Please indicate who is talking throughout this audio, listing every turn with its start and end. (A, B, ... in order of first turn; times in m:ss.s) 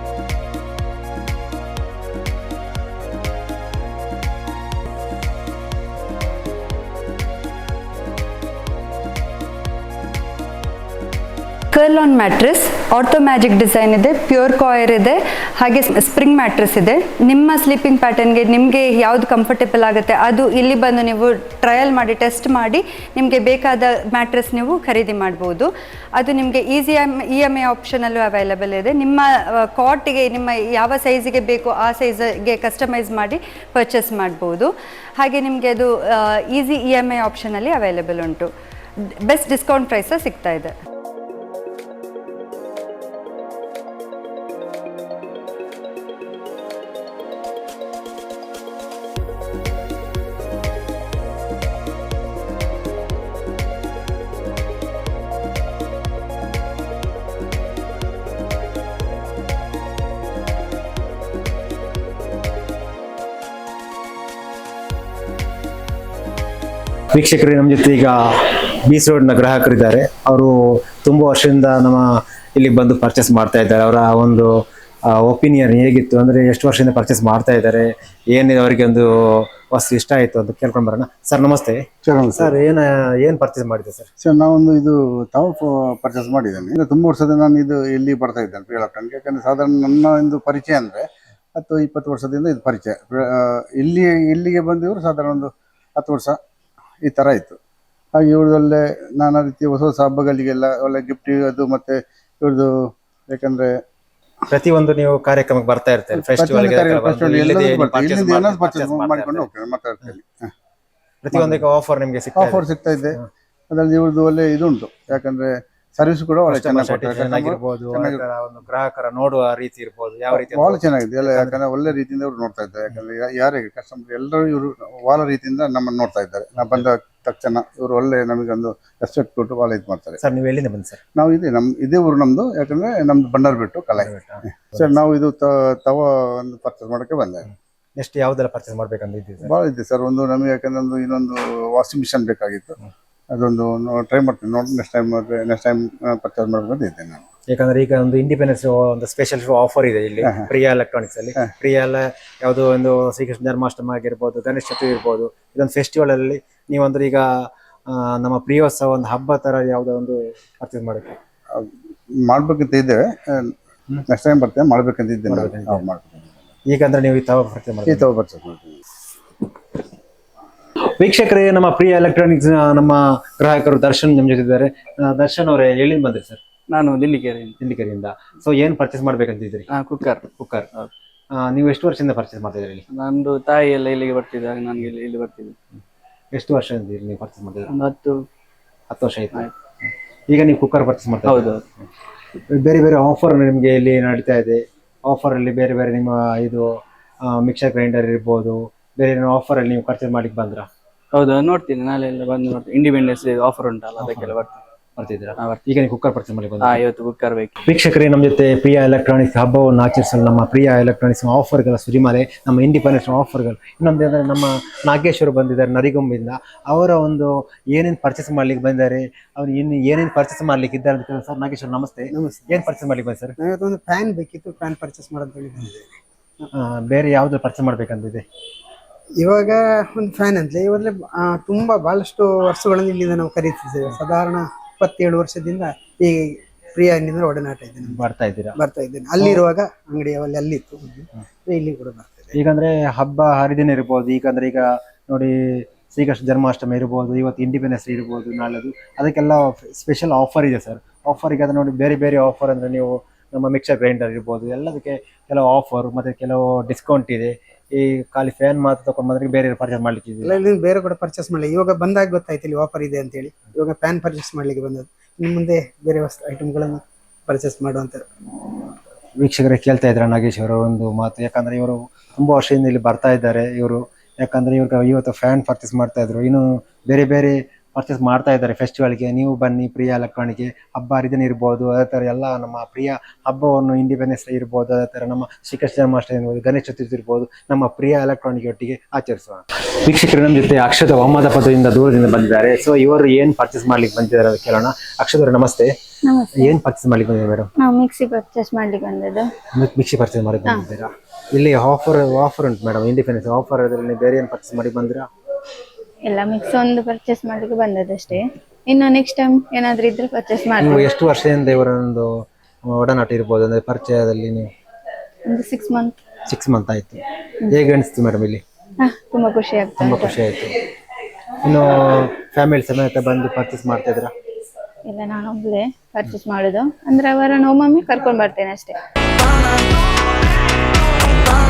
0:11.7-0:40.8 A
1:07.1-1:14.5 B
1:15.1-1:24.1 B
1:22.0-1:22.6 C
1:24.2-1:36.4 C
1:37.0-1:37.6 C
1:38.2-1:42.7 C
1:43.3-1:43.8 C
1:44.5-1:49.5 B
1:46.2-1:50.5 C
1:51.2-1:53.3 B
1:51.3-1:51.6 C
1:52.4-1:58.2 C
1:56.5-2:01.6 B
2:00.3-2:10.2 C
2:10.2-2:11.0 B
2:11.2-2:14.1 C
2:14.0-2:15.0 B
2:14.8-2:17.5 C
2:18.0-2:19.5 B
2:19.4-2:22.8 C
2:23.3-2:27.2 C
2:27.5-2:37.3 B
2:37.9-2:41.2 B
2:42.2-2:43.6 C
2:44.1-2:46.3 C
2:45.3-2:45.8 B
2:46.7-2:48.0 B
2:47.9-2:48.8 C
2:51.0-2:56.4 B
2:56.7-2:57.6 D
2:57.6-2:59.7 B
2:59.7-3:00.9 D
3:00.3-3:00.7 B
3:01.4-3:02.8 B
3:02.9-3:05.6 D
3:06.3-3:07.7 B
3:07.7-3:08.3 D
3:08.9-3:09.5 B
3:10.3-3:11.5 B
3:11.3-3:11.6 D
3:12.5-3:16.7 B
3:17.3-3:20.7 B
3:21.1-3:24.6 D
3:24.0-3:24.4 B
3:25.0-3:26.8 B
3:26.6-3:27.5 D
3:27.6-3:43.4 B
3:42.1-3:42.5 E
3:43.4-3:46.0 E
3:46.5-3:48.2 B
3:49.2-3:58.0 E
3:57.8-3:58.6 B
3:58.6-4:02.3 E
4:02.3-4:20.4 B
4:20.2-4:28.0 E
4:29.2-4:55.7 B
4:56.0-4:56.5 F
4:56.4-4:57.5 B
4:57.6-4:59.3 F
4:59.5-5:05.1 B
5:06.0-5:10.9 F
5:10.6-5:12.1 B
5:12.7-5:14.5 B
5:15.3-5:16.0 F
5:16.3-5:18.4 B
5:18.8-5:20.1 F
5:19.8-5:20.6 B
5:21.4-5:24.1 B
5:24.8-5:28.8 F